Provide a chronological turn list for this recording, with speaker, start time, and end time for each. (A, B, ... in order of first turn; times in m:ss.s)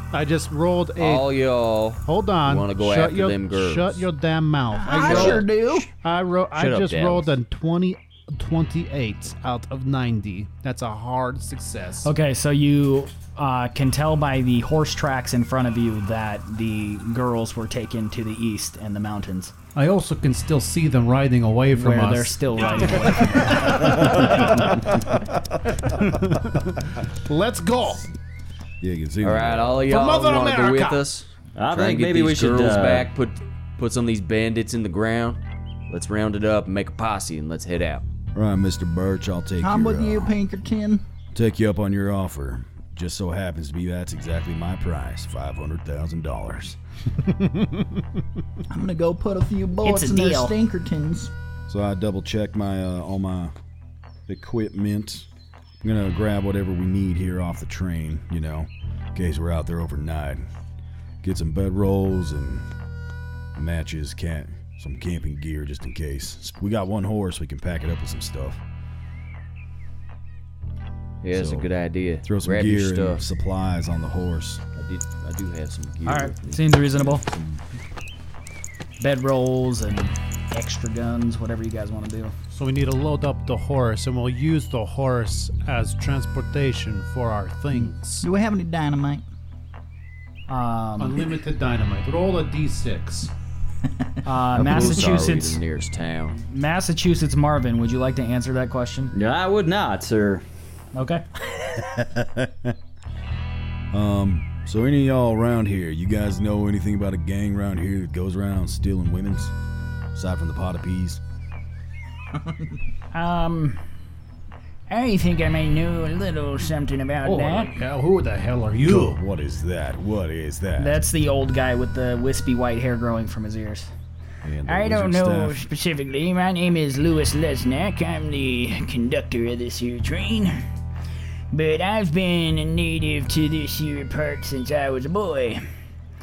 0:00.1-0:01.3 A
0:01.0-0:04.1 B
0:02.0-0:12.1 A
0:04.7-0:05.9 C
0:04.9-0:05.5 B
0:06.6-0:07.4 B
0:12.0-0:19.5 D
0:19.8-0:24.8 A
0:21.7-0:24.2 D
0:25.9-0:28.1 A
0:28.8-0:29.9 E
0:29.2-0:38.0 B
0:29.9-0:31.0 A
0:31.6-0:33.1 F
0:38.3-0:40.3 E
0:39.6-0:41.0 C
0:41.3-0:46.8 E
0:47.4-0:47.8 A
0:48.7-0:51.3 C
0:49.8-0:50.6 D
0:51.7-0:53.5 E
0:54.3-0:55.3 E
0:55.8-1:00.5 E
1:01.2-1:02.6 E
1:03.6-1:08.6 E
1:11.2-1:13.2 B
1:11.3-1:11.7 E
1:12.2-1:14.6 E
1:14.8-1:16.6 B
1:16.1-1:17.3 D
1:17.0-1:17.6 E
1:19.0-1:22.3 D
1:22.5-1:28.3 A
1:28.2-1:29.2 C
1:30.5-1:31.3 D
1:31.0-1:33.3 A
1:34.2-1:35.6 D
1:34.5-1:36.4 B
1:36.5-1:39.1 D
1:39.1-1:40.4 F
1:40.9-1:41.2 D
1:41.8-1:42.8 E
1:43.9-1:49.5 E
1:50.1-1:51.2 E
1:53.1-1:53.8 D
1:54.9-1:57.7 D
1:57.2-1:59.2 A
1:58.8-2:01.0 E
2:00.8-2:03.9 D
2:04.4-2:05.6 E
2:04.7-2:10.6 D
2:11.5-2:15.6 D